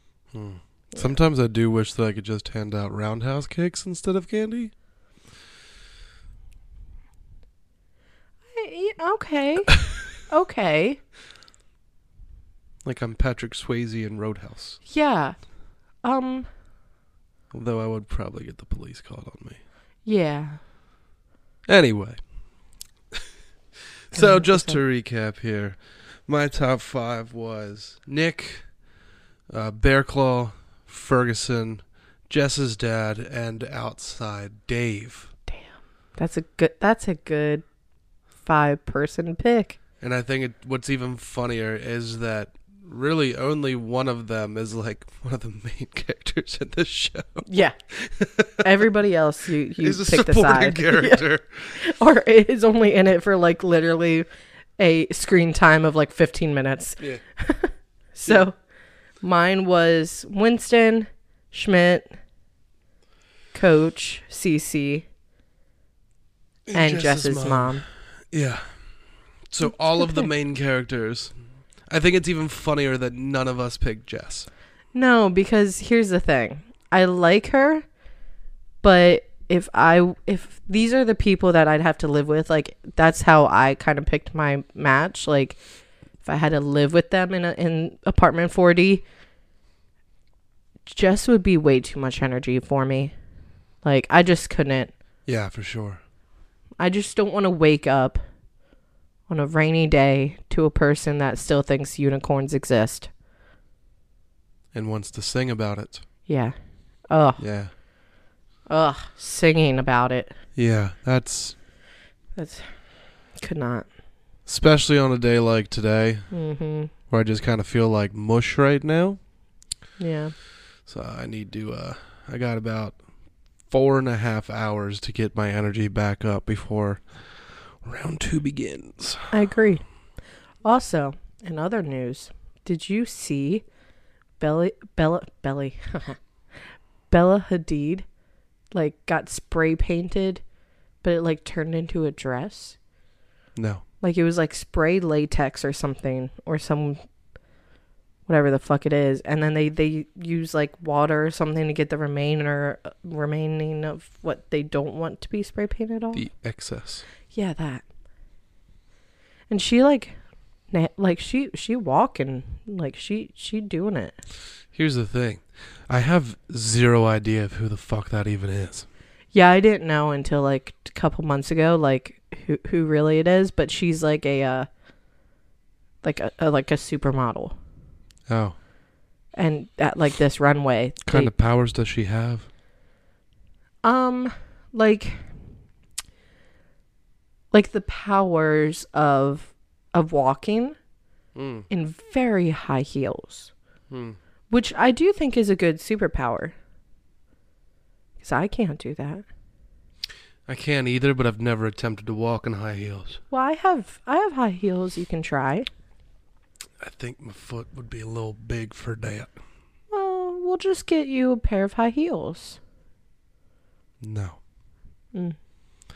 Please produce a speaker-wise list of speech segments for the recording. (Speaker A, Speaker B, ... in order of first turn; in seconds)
Speaker A: 0.3-4.7, 12.8-14.8, 17.5-19.6, 21.7-22.2, 24.1-28.7, 29.5-35.3, 40.0-48.6, 49.8-51.8, 66.7-68.8, 69.5-71.3, 71.9-74.5, 95.3-96.0, 104.7-106.0, 107.4-107.7, 110.5-111.6, 114.5-116.3, 117.1-119.2, 120.9-123.0, 123.7-129.4, 143.6-143.8, 156.1-157.1, 164.7-168.9, 178.3-178.6, 181.0-182.5, 191.3-191.7, 193.9-194.2, 200.5-203.2, 206.8-209.3, 214.0-214.4
Speaker B: 8.5-11.0, 14.8-15.4, 16.0-16.5, 20.1-20.6, 24.1-24.8, 35.5-37.6, 38.4-39.8, 47.5-47.8, 48.6-51.2, 51.8-54.3, 54.8-58.5, 59.2-62.2, 63.5-65.1, 66.8-67.8, 74.9-77.8, 78.8-85.6, 86.2-89.0, 90.9-93.1, 93.8-94.9, 96.8-98.2, 99.3-103.1, 106.3-106.6, 107.1-107.4, 108.7-110.3, 112.4-112.8, 113.3-113.9, 116.3-116.9, 120.0-120.3, 129.3-129.8, 130.6-133.6, 134.4-136.2, 137.1-138.1, 138.7-140.4, 141.0-142.8, 144.0-147.0, 148.3-156.2, 157.3-157.8, 159.5-160.2, 160.7-164.2, 169.3-174.7, 176.0-177.6, 179.4-181.3, 183.8-185.3, 187.5-190.8, 191.7-193.5, 194.5-196.6, 198.2-199.2, 203.3-205.7, 209.9-212.6